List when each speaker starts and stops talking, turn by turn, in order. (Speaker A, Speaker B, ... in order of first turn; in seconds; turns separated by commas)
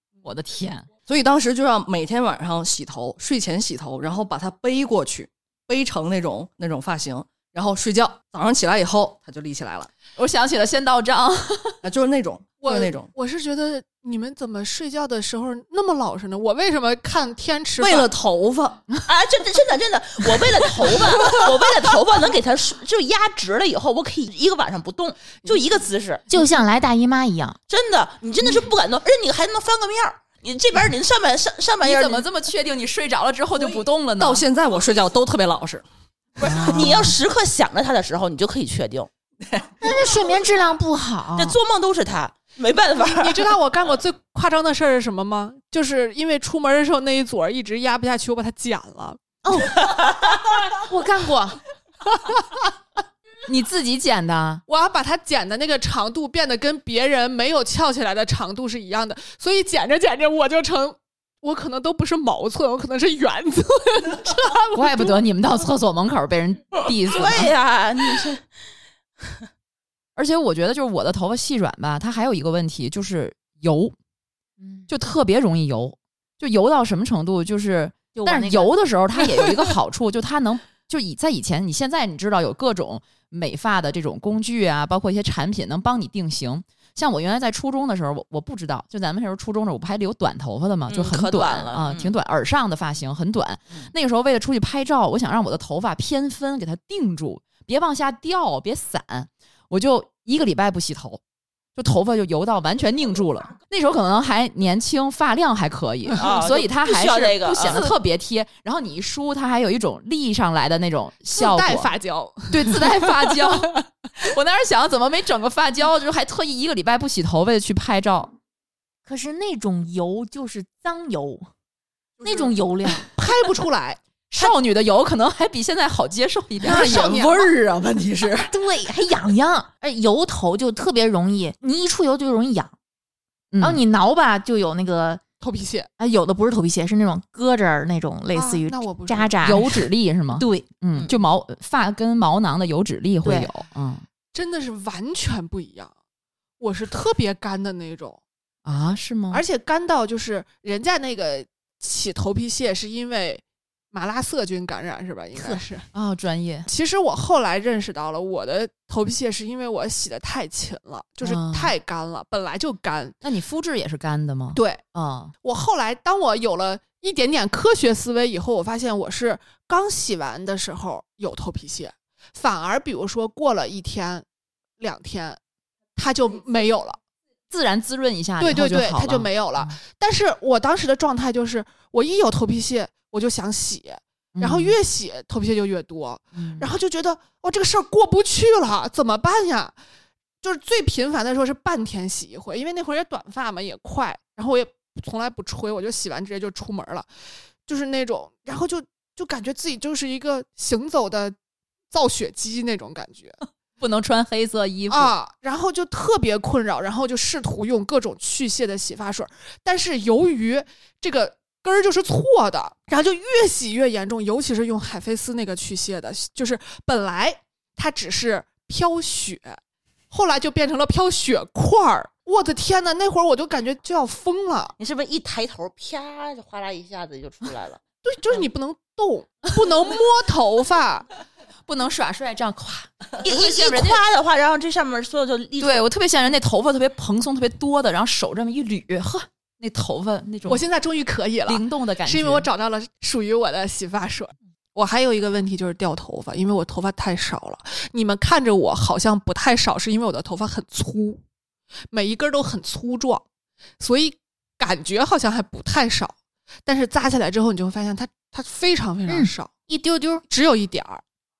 Speaker A: 0.2-0.9, Speaker B: 1.1-9.9, Speaker A: 10.2-11.8, Speaker B: 11.8-13.1, Speaker C: 12.6-18.1, Speaker B: 17.8-18.8, Speaker D: 19.0-26.2, Speaker E: 26.3-27.6, Speaker D: 27.7-32.2, Speaker A: 31.8-34.4, Speaker B: 33.6-35.8, Speaker B: 36.4-37.0, Speaker D: 36.5-39.1, Speaker E: 39.8-41.6, Speaker D: 41.4-43.5, Speaker C: 43.2-49.2, Speaker E: 49.4-49.8, Speaker E: 50.9-51.6, Speaker A: 53.5-54.6, Speaker C: 54.7-65.2, Speaker A: 64.7-67.5, Speaker D: 67.1-68.4, Speaker A: 70.2-73.9, Speaker E: 74.6-74.8, Speaker A: 74.9-101.2, Speaker E: 78.1-78.7, Speaker D: 90.9-92.1, Speaker A: 101.8-111.9, Speaker D: 106.2-107.9, Speaker C: 111.3-113.4, Speaker A: 112.5-118.3, Speaker E: 119.0-121.5, Speaker E: 122.2-123.1, Speaker C: 123.0-124.5, Speaker A: 124.3-126.9, Speaker C: 126.6-127.5, Speaker B: 126.6-128.5, Speaker E: 128.5-132.7, Speaker A: 133.5-133.8, Speaker E: 133.6-135.2, Speaker C: 135.4-135.9, Speaker E: 136.0-139.8, Speaker C: 138.3-139.4, Speaker A: 139.4-144.0, Speaker E: 140.3-140.7, Speaker E: 143.2-143.5, Speaker C: 144.3-145.9, Speaker C: 146.6-148.2, Speaker A: 148.7-149.4, Speaker C: 149.3-155.9, Speaker A: 155.9-156.7, Speaker C: 156.7-163.2, Speaker A: 161.2-161.7, Speaker A: 163.2-165.3, Speaker C: 164.5-164.8, Speaker C: 165.4-174.2, Speaker C: 174.8-175.4, Speaker C: 175.9-177.0, Speaker A: 177.5-179.8, Speaker C: 178.4-189.8, Speaker A: 184.3-184.8, Speaker A: 186.3-186.7, Speaker C: 190.4-197.1, Speaker C: 197.6-201.3, Speaker C: 201.9-203.4, Speaker A: 203.8-205.1, Speaker C: 204.9-219.6, Speaker C: 220.1-224.8, Speaker D: 224.8-227.8, Speaker C: 228.0-231.1, Speaker A: 231.7-234.0, Speaker D: 233.2-235.8, Speaker A: 235.6-240.6, Speaker C: 240.5-251.2, Speaker A: 241.5-242.5, Speaker C: 251.9-253.2, Speaker C: 253.8-259.5, Speaker E: 259.1-260.2, Speaker C: 260.3-261.0